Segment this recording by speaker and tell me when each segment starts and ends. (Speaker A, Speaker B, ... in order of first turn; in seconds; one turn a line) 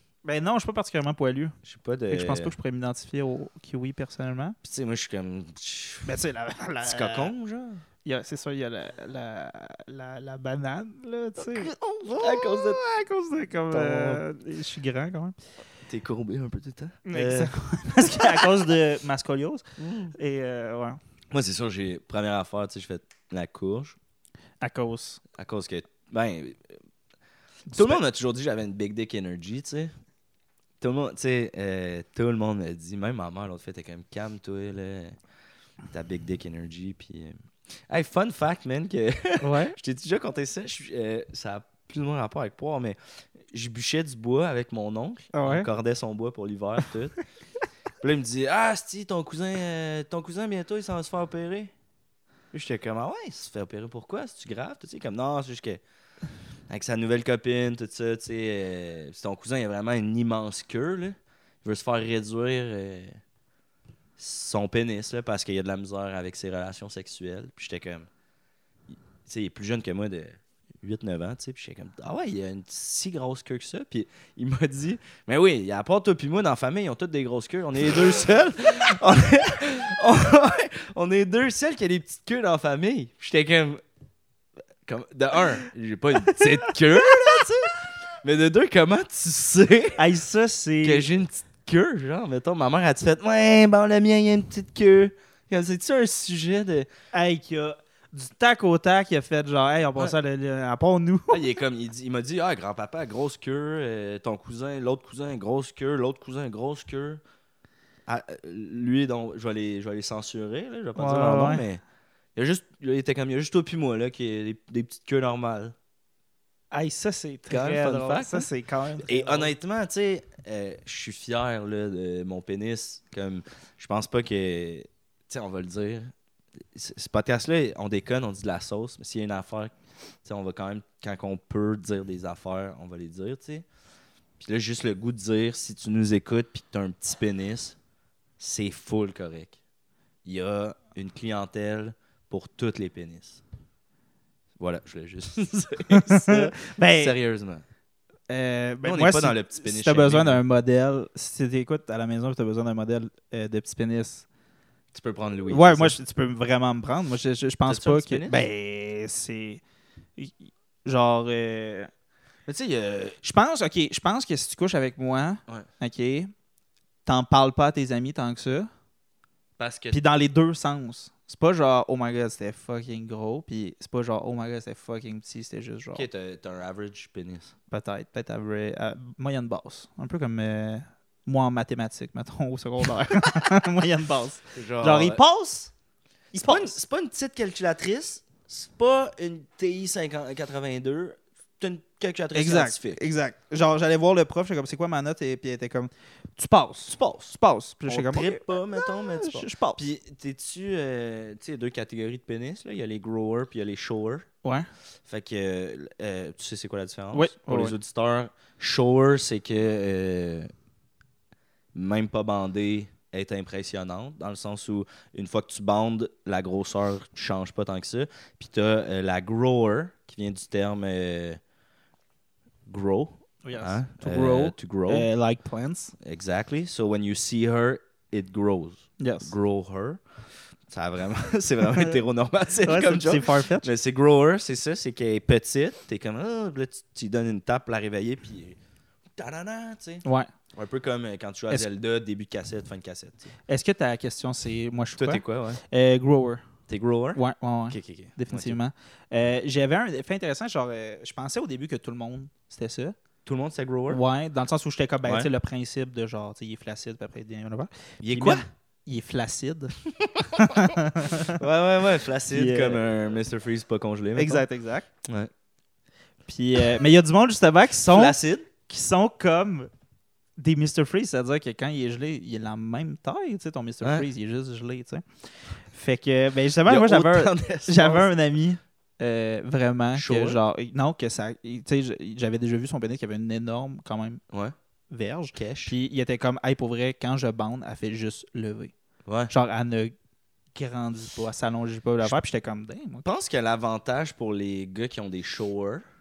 Speaker A: 0.2-1.6
Speaker B: 1.6-2.5
Speaker A: 2.1-4.6
Speaker B: 4.6-6.1
Speaker A: 6.0-7.3
Speaker B: 6.8-7.8
Speaker A: 8.0-15.3
Speaker B: 11.4-12.8
Speaker B: 13.7-14.2
Speaker B: 15.9-18.5
Speaker A: 17.1-21.0
Speaker B: 19.8-20.1
Speaker B: 21.3-24.0
Speaker A: 24.6-25.2
Speaker B: 25.4-26.7
Speaker A: 27.7-28.0
Speaker B: 27.7-29.9
Speaker B: 30.8-35.1
Speaker B: 35.9-37.3
Speaker B: 37.9-43.0
Speaker A: 39.4-39.7
Speaker B: 43.5-47.2
Speaker A: 45.3-45.7
Speaker B: 48.0-51.7
Speaker B: 52.5-55.8
Speaker B: 56.7-63.2
Speaker B: 64.2-68.1
Speaker B: 69.2-83.8
Speaker B: 84.8-90.0
Speaker A: 86.4-86.7
Speaker A: 90.0-91.0
Speaker B: 90.8-96.9
Speaker A: 97.1-101.4
Speaker B: 101.3-107.2
Speaker B: 108.1-111.8
Speaker A: 110.9-111.6
Speaker B: 112.3-115.7
Speaker A: 116.7-119.5
Speaker B: 117.5-118.5
Speaker B: 119.0-126.1
Speaker B: 126.7-133.7
Speaker B: 134.4-137.8
Speaker B: 138.4-139.6
Speaker B: 140.2-143.4
Speaker B: 144.6-147.6
Speaker A: 145.9-147.1
Speaker A: 148.3-154.2
Speaker B: 148.8-150.4
Speaker B: 154.9-155.9
Speaker A: 155.5-159.6
Speaker B: 157.7-158.4
Speaker A: 160.2-161.9
Speaker B: 162.4-163.2
Speaker A: 163.2-166.3
Speaker A: 167.1-168.7
Speaker B: 169.6-170.0
Speaker A: 169.9-176.1
Speaker B: 175.9-177.5
Speaker A: 177.7-185.7
Speaker B: 184.5-185.2
Speaker A: 186.3-186.8
Speaker B: 186.3-193.1
Speaker A: 192.3-199.8
Speaker B: 196.8-204.2
Speaker A: 204.4-204.7
Speaker B: 205.1-210.5
Speaker A: 207.1-207.8
Speaker B: 211.7-221.4
Speaker B: 222.7-225.1
Speaker A: 223.4-225.9
Speaker B: 226.0-230.0
Speaker A: 229.0-229.3
Speaker B: 230.7-238.6
Speaker A: 231.7-232.0
Speaker A: 232.6-233.7
Speaker B: 239.2-243.3
Speaker A: 240.0-240.3
Speaker A: 243.5-246.4
Speaker B: 245.0-245.6
Speaker B: 246.7-248.6
Speaker A: 247.1-252.9
Speaker B: 253.2-254.0
Speaker A: 253.9-259.7
Speaker B: 255.0-255.3
Speaker B: 258.0-258.4
Speaker A: 260.4-261.4
Speaker B: 261.2-264.4
Speaker A: 262.3-262.8
Speaker A: 264.1-264.9
Speaker B: 265.0-265.3
Speaker A: 266.3-268.1
Speaker B: 267.9-268.5
Speaker A: 268.7-269.7
Speaker A: 270.4-284.2
Speaker B: 276.6-278.1
Speaker B: 279.9-280.4
Speaker A: 284.9-288.7
Speaker B: 285.3-285.7
Speaker B: 289.1-289.3
Speaker A: 289.3-289.9
Speaker A: 290.5-293.1
Speaker B: 293.0-295.8